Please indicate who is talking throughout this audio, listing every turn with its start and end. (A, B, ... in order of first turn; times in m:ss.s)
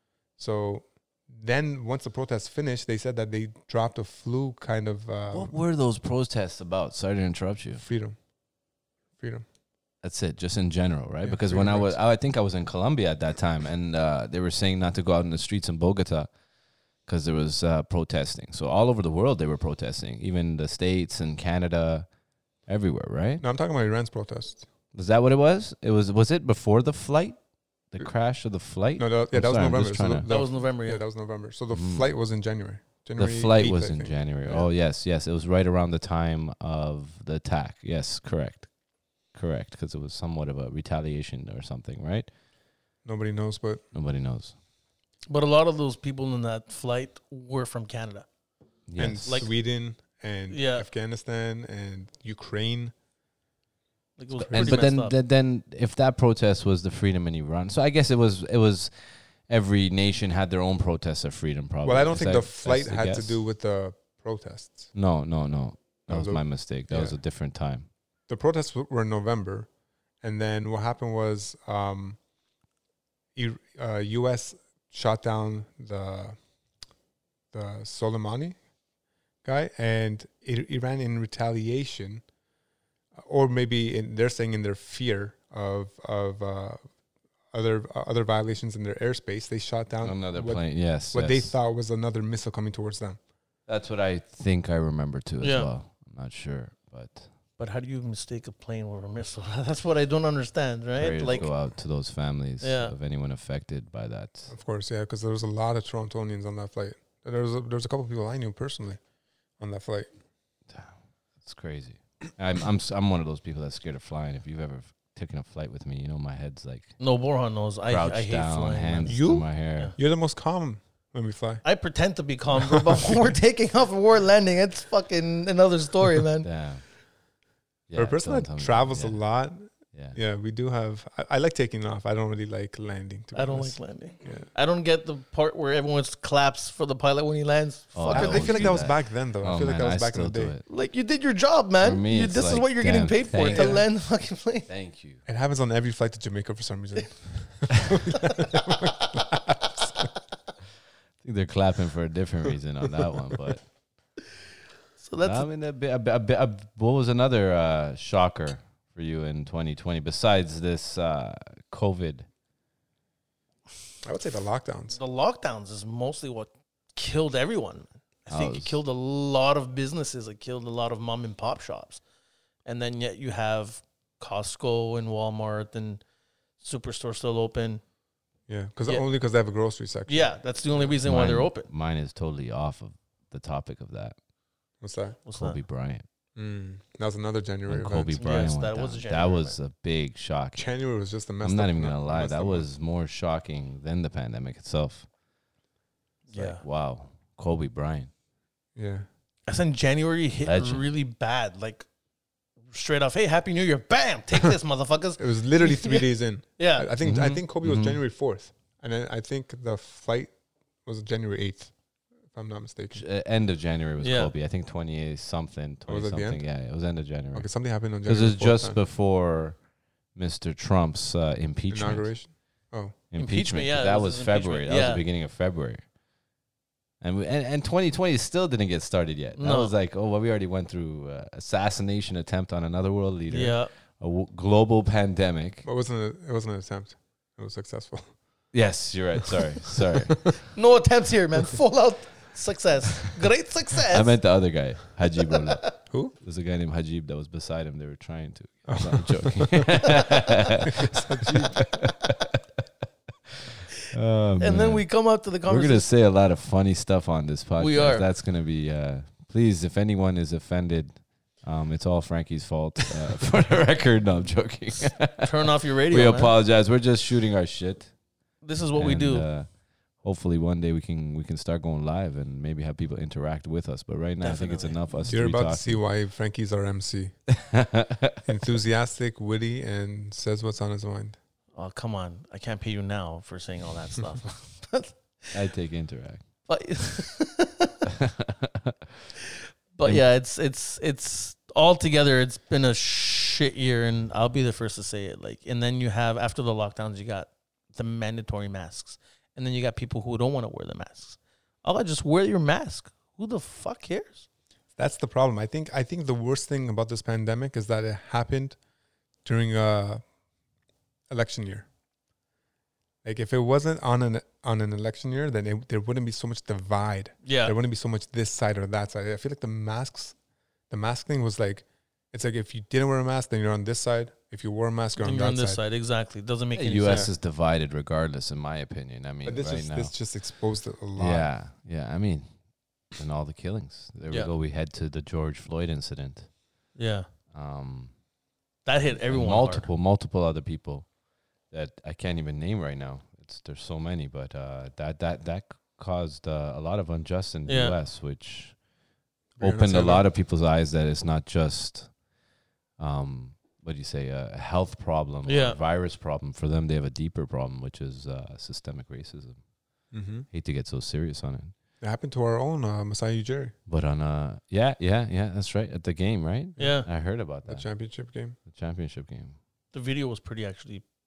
0:00.4-0:05.6 A
0:05.3-0:07.8 B
0:07.7-0:08.2 A
0:09.2-0:09.4 A
0:10.0-0:16.3 B
0:11.2-0:12.0 A
0:17.0-0:22.1 B
0:22.7-0:23.4 B
0:23.4-0:24.6 A
0:24.9-0:27.4 B
0:27.9-0:30.3 B
0:29.0-0:34.7 A
0:30.3-0:31.0 C
0:31.7-0:32.1 B
0:33.2-0:38.7 B
0:39.3-0:42.3 B
0:43.0-0:43.8 A
0:43.9-0:44.5 B
0:45.3-0:48.2 C
0:48.9-0:49.5 B
0:49.0-0:52.9 A
0:50.5-0:50.8 C
0:54.2-0:55.1 C
0:54.4-1:03.4 B
0:54.5-0:54.8 A
1:01.8-1:04.9 A
1:04.9-1:07.9 B
1:06.1-1:07.2 A
1:08.3-1:09.7 A
1:10.2-1:12.2 A
1:13.3-1:16.4 A
1:17.5-1:18.6 A
1:19.4-1:22.2 A
1:23.1-1:26.9 A
1:27.5-1:33.2 A
1:30.0-1:31.6 B
1:33.7-1:37.3 B
1:35.4-1:35.7 C
1:37.6-1:41.5 C
1:41.0-1:44.5 B
1:42.6-1:42.9 C
1:44.5-1:49.0 A
1:49.6-1:50.1 A
1:50.7-1:57.0 B
1:57.0-1:59.1 C
1:57.9-1:59.9 B
1:59.1-2:01.6 A
2:01.6-2:06.5 C
2:02.7-2:03.4 A
2:06.4-2:06.9 B
2:07.9-2:09.3 B
2:07.9-2:14.5 A
2:09.9-2:10.2 B
2:13.3-2:18.8 C
2:17.9-2:20.6 B
2:18.1-2:20.5 A
2:20.7-2:24.7 C
2:21.8-2:24.0 B
2:23.5-2:23.8 A
2:24.7-2:25.2 B
2:25.2-2:30.1 A
2:31.2-2:33.7 B
2:35.0-2:35.5 C
2:35.2-2:42.3 B
2:44.0-2:45.0 A
2:44.9-2:52.0 C
2:48.3-2:48.8 B
2:52.6-2:56.0 C
2:56.6-2:57.8 C
2:58.5-3:00.9 A
3:00.1-3:01.7 C
3:01.0-3:04.2 B
3:04.8-3:05.2 A
3:05.2-3:05.6 C
3:05.4-3:06.0 B
3:06.4-3:08.5 A
3:07.7-3:10.7 B
3:08.2-3:09.6 C
3:10.5-3:12.7 A
3:11.4-3:15.1 B
3:16.3-3:16.6 C
3:16.3-3:18.1 B
3:18.7-3:19.0 A
3:19.5-3:21.8 C
3:20.4-3:20.9 B
3:22.7-3:26.0 C
3:25.2-3:30.3 A
3:26.6-3:26.9 C
3:27.0-3:28.0 B
3:30.8-3:31.7 A
3:32.3-3:33.0 A
3:32.9-3:42.2 B
3:34.0-3:34.3 C
3:35.9-3:36.4 A
3:37.3-3:38.8 A
3:41.7-3:43.0 A
3:43.1-3:45.8 B
3:43.2-3:45.0 C
3:47.0-3:55.6 B
3:49.4-3:49.7 C
3:53.3-3:53.7 C
3:55.6-3:58.1 A
3:58.5-4:00.4 B
4:00.5-4:04.2 C
4:03.9-4:12.4 B
4:05.3-4:05.7 C
4:08.7-4:09.7 A
4:10.8-4:11.6 A
4:13.9-4:28.0 B
4:14.4-4:15.9 C
4:17.6-4:18.0 C
4:25.0-4:26.3 C
4:28.4-4:29.3 C
4:28.8-4:35.8 B
4:34.2-4:34.8 C
4:35.0-4:37.2 A
4:37.4-4:38.2 B
4:38.2-4:41.2 A
4:41.5-4:45.3 C
4:45.3-4:46.2 B
4:46.5-4:47.8 C
4:47.9-4:48.7 B
4:49.7-5:04.2 C
5:04.8-5:08.6 A
5:09.2-5:10.0 A
5:11.1-5:11.7 A
5:13.0-5:20.2 A
5:17.2-5:17.5 C
5:20.7-5:25.6 A
5:25.0-5:27.1 C
5:26.5-5:29.9 B
5:26.8-5:27.1 A
5:29.2-5:31.3 A
5:31.0-5:36.4 B
5:36.7-5:37.1 C
5:37.3-5:38.0 B
5:38.6-5:39.7 C
5:38.9-5:40.9 B
5:41.5-5:48.6 B
5:47.5-5:47.7 C
5:49.4-5:50.0 A
5:49.4-5:51.9 B
5:52.8-5:59.4 B
5:55.2-5:55.6 C
5:59.9-6:00.3 A
6:00.3-6:01.5 B
6:01.8-6:03.5 A
6:03.7-6:07.7 B
6:06.6-6:06.8 C
6:07.4-6:08.4 A
6:08.5-6:09.4 B
6:09.7-6:10.8 C